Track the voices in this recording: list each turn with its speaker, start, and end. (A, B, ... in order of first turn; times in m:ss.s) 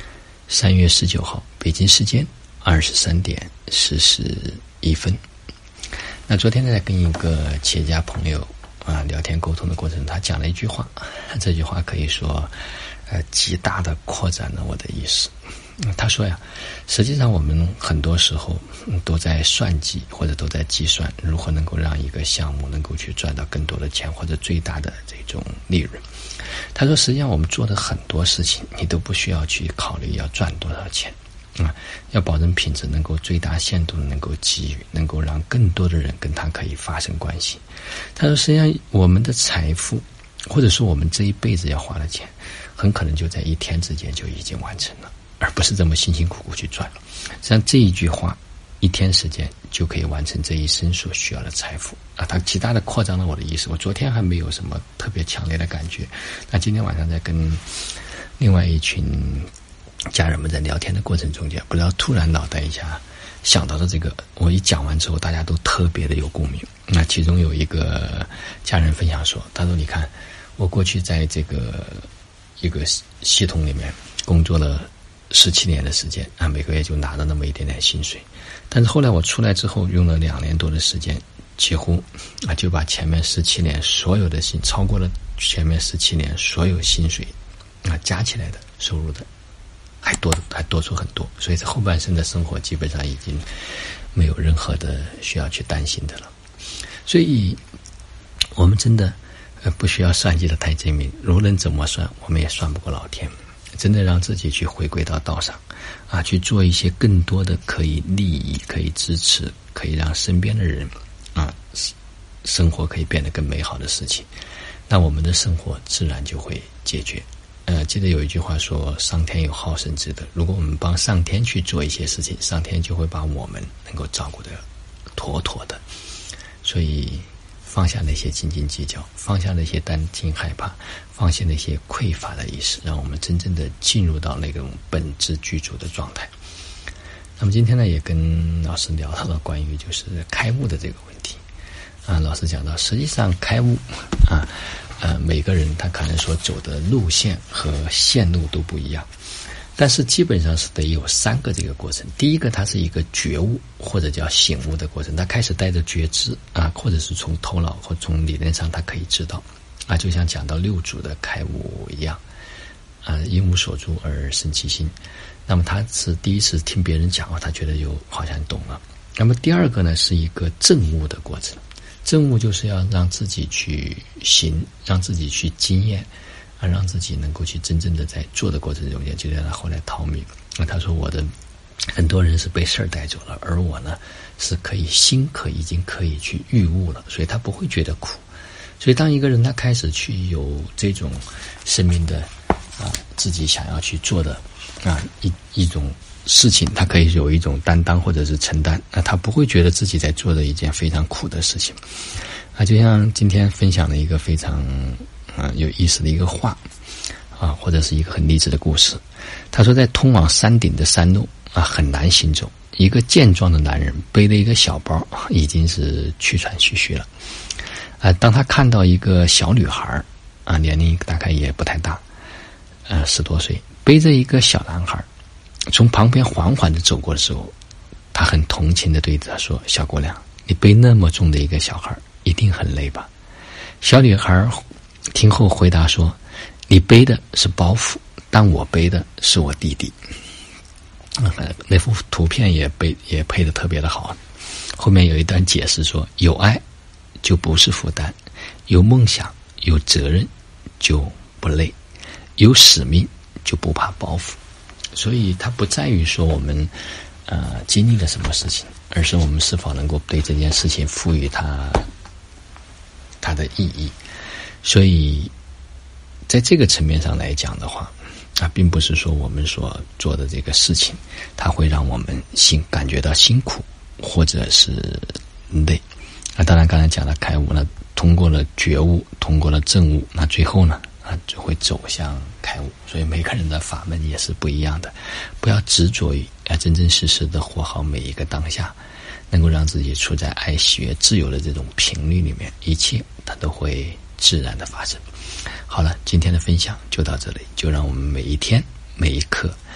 0:00.5-0:05.2 A
0:06.3-0:12.5 A
0:13.1-0:26.0 A
0:26.7-0:37.6 A
0:38.2-0:57.6 A
0:58.4-0:59.5 A
1:00.1-1:12.1 A
1:12.6-1:29.3 A
1:30.0-1:33.5 A
1:34.1-1:36.3 A
1:37.0-1:37.6 A
1:38.6-1:51.9 A
1:52.4-1:54.3 A
1:54.9-2:04.6 A
2:05.2-2:05.8 A
2:06.6-2:16.3 A
2:17.4-2:21.4 A
2:22.0-2:29.1 A
2:29.8-2:42.2 A
2:43.0-2:45.0 A
2:45.5-2:56.1 A
2:56.6-3:01.3 A
3:01.9-3:08.2 A
3:08.8-3:21.8 A
3:22.6-3:26.6 A
3:27.4-3:37.1 A
3:38.0-3:42.0 A
3:42.9-3:45.1 A
3:45.7-3:47.5 A
3:48.1-3:53.1 A
3:53.8-3:56.2 A
3:56.7-4:00.0 A
4:01.2-4:04.2 A
4:04.8-4:06.6 A
4:07.2-4:11.8 A
4:12.4-4:14.4 A
4:14.9-4:16.7 A
4:17.3-4:21.9 A
4:23.2-4:24.0 A
4:24.6-4:25.3 A
4:26.3-4:35.8 A
4:36.4-4:48.8 A
4:49.3-4:55.0 A
4:55.7-4:59.6 A